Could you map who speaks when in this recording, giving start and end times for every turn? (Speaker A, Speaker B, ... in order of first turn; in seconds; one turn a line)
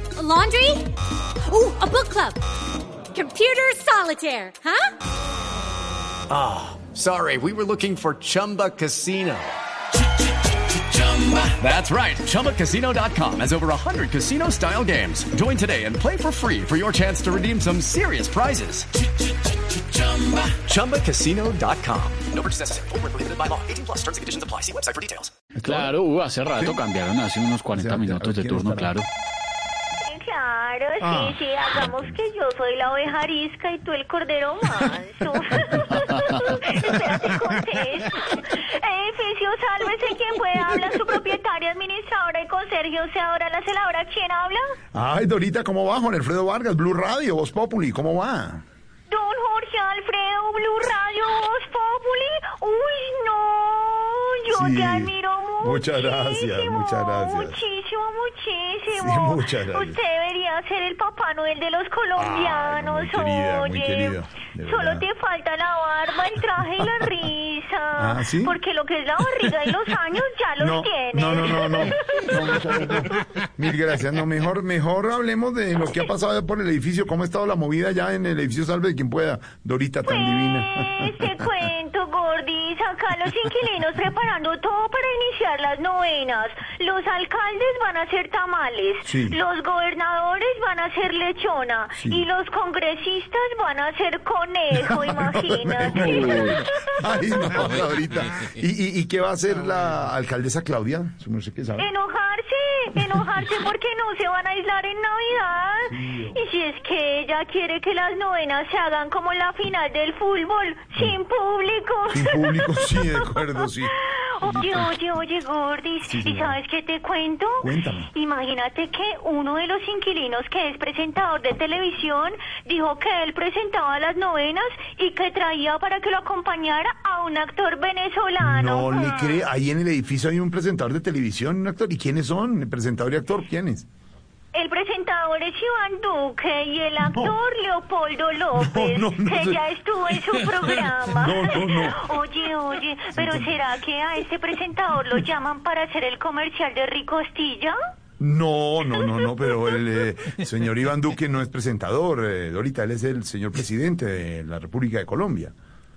Speaker A: 0.1-0.9
Speaker A: 1.4-2.4
Speaker A: 3.1-4.9
Speaker B: 6.3-9.6
Speaker B: 11.4-18.9
Speaker B: 20.4-25.3
Speaker C: 25.6-29.1
Speaker D: 25.6-25.9
Speaker D: 27.7-28.9
Speaker E: 30.0-44.8
Speaker D: 31.0-32.2
Speaker D: 44.9-48.6
Speaker E: 49.1-73.1
Speaker D: 54.5-57.6
Speaker D: 58.9-60.0
Speaker D: 62.2-65.0
Speaker D: 68.0-68.6
Speaker D: 70.6-81.5
Speaker E: 80.0-96.8
Speaker D: 89.0-89.4
Speaker D: 92.0-92.2
Speaker D: 94.9-101.9
Speaker E: 101.8-129.4
Speaker D: 105.8-106.4
Speaker D: 112.1-114.9
Speaker D: 116.0-116.6
Speaker D: 117.6-118.1
Speaker D: 128.4-133.8
Speaker E: 134.5-147.8
Speaker D: 137.0-137.3
Speaker D: 138.5-139.6
Speaker D: 141.1-142.1
Speaker D: 143.1-143.6
Speaker D: 148.2-155.5
Speaker E: 148.9-149.8